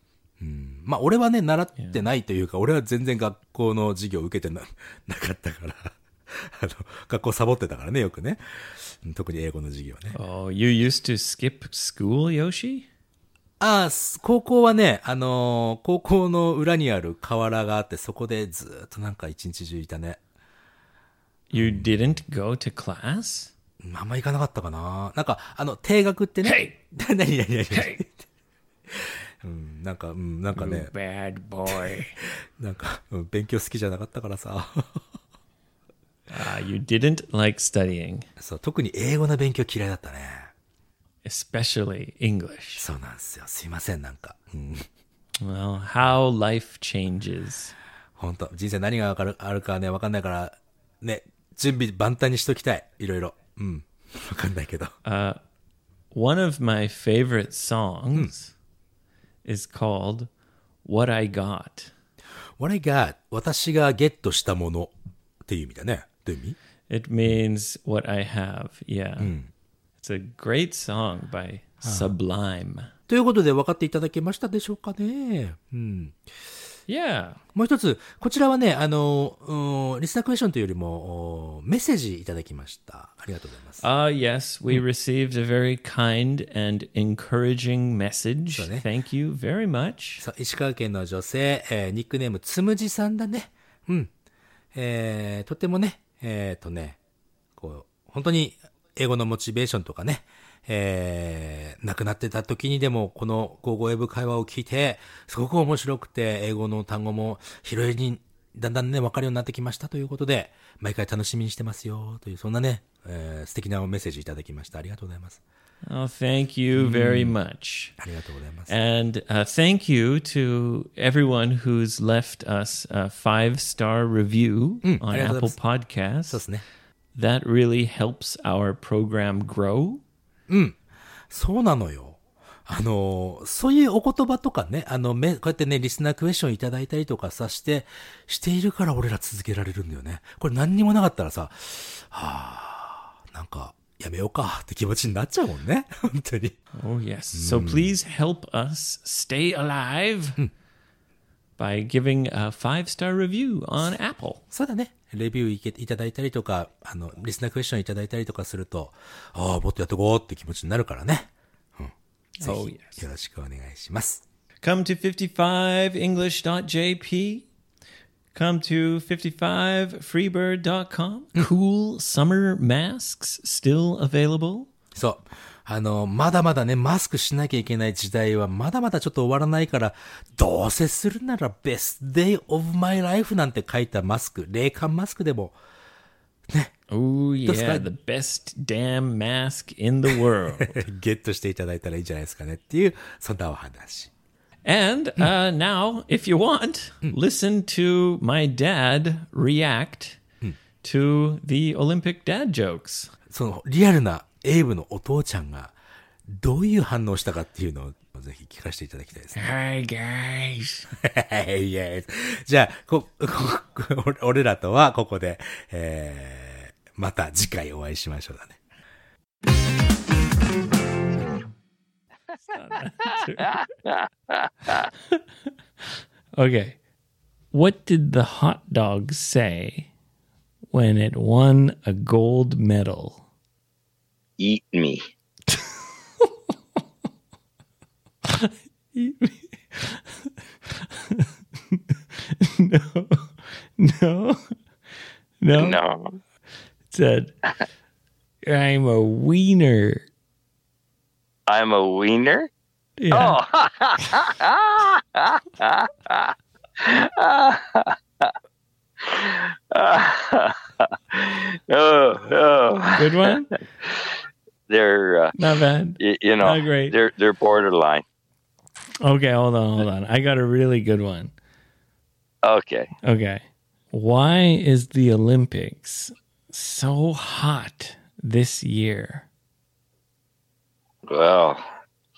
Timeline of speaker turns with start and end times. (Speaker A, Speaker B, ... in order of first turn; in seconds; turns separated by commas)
Speaker A: 0.4-10.2, Speaker B: 10.1-12.9, Speaker A: 13.6-20.2, Speaker B: 21.5-23.5, Speaker A: 21.6-21.8, Speaker A: 23.8-28.2, Speaker B: 26.4-26.8, Speaker B: 27.7-28.0, Speaker A: 28.9-30.9, Speaker B: 30.5-32.2, Speaker A: 31.7-35.0, Speaker B: 36.3-38.3, Speaker A: 38.4-40.5, Speaker B: 41.2-42.9, Speaker A: 42.8-44.9, Speaker B: 45.4-47.7, Speaker A: 48.2-55.0, Speaker B: 55.0-55.4, Speaker B: 56.1-58.5, Speaker B: 59.4-60.3, Speaker B: 60.9-61.9, Speaker A: 62.6-64.9, Speaker A: 65.5-66.6, Speaker B: 66.9-69.3, Speaker A: 69.2-69.5, Speaker B: 70.0-72.9, Speaker A: 71.8-72.1, Speaker A: 73.1-76.2, Speaker B: 76.9-77.4, Speaker A: 77.5-83.8, Speaker B: 83.8-90.3, Speaker A: 88.5-88.8, Speaker A: 90.2-94.1, Speaker A: 94.7-97.0, Speaker A: 97.6-115.4, Speaker B: 115.9-118.0, Speaker A: 116.7-117.4, Speaker A: 118.0-118.7, Speaker B: 118.7-126.4, Speaker A: 124.8-125.6, Speaker A: 126.3-126.6, Speaker B: 127.1-130.0, Speaker A: 130.5-130.8, Speaker A: 131.3-146.6, Speaker B: 146.7-150.4, Speaker A: 147.3-147.9, Speaker B: 151.6-154.4, Speaker A: 154.5-164.2, Speaker B: 162.4-163.0, Speaker B: 164.6-167.5, Speaker B: 168.3-174.7, Speaker A: 174.9-185.6, Speaker B: 186.9-190.8, Speaker A: 187.5-187.9, Speaker A: 190.6-194.1, Speaker B: 194.6-200.2, Speaker B: 200.8-203.1, Speaker A: 203.3-205.7, Speaker A: 206.3-209.4, Speaker B: 209.3-210.9, Speaker A: 210.9-218.6, Speaker B: 222.5-223.6, Speaker C: 223.4-224.9, Speaker B: 225.8-226.8, Speaker B: 227.5-229.9, Speaker B: 230.7-233.2, Speaker C: 234.4-235.0, Speaker B: 235.5-236.3, Speaker B: 238.2-244.6, Speaker B: 245.4-245.8, Speaker C: 245.6-246.2, Speaker B: 246.9-247.3, Speaker B: 248.4-250.1, Speaker C: 251.5-252.5, Speaker B: 253.0-253.4, Speaker C: 253.1-258.3, Speaker C: 259.0-264.2, Speaker B: 262.9-263.6, Speaker C: 264.7-265.4, Speaker B: 265.4-266.9, Speaker C: 266.0-268.0, Speaker B: 269.0-271.3, Speaker C: 272.4-272.9, Speaker B: 273.0-279.3, Speaker C: 281.1-281.7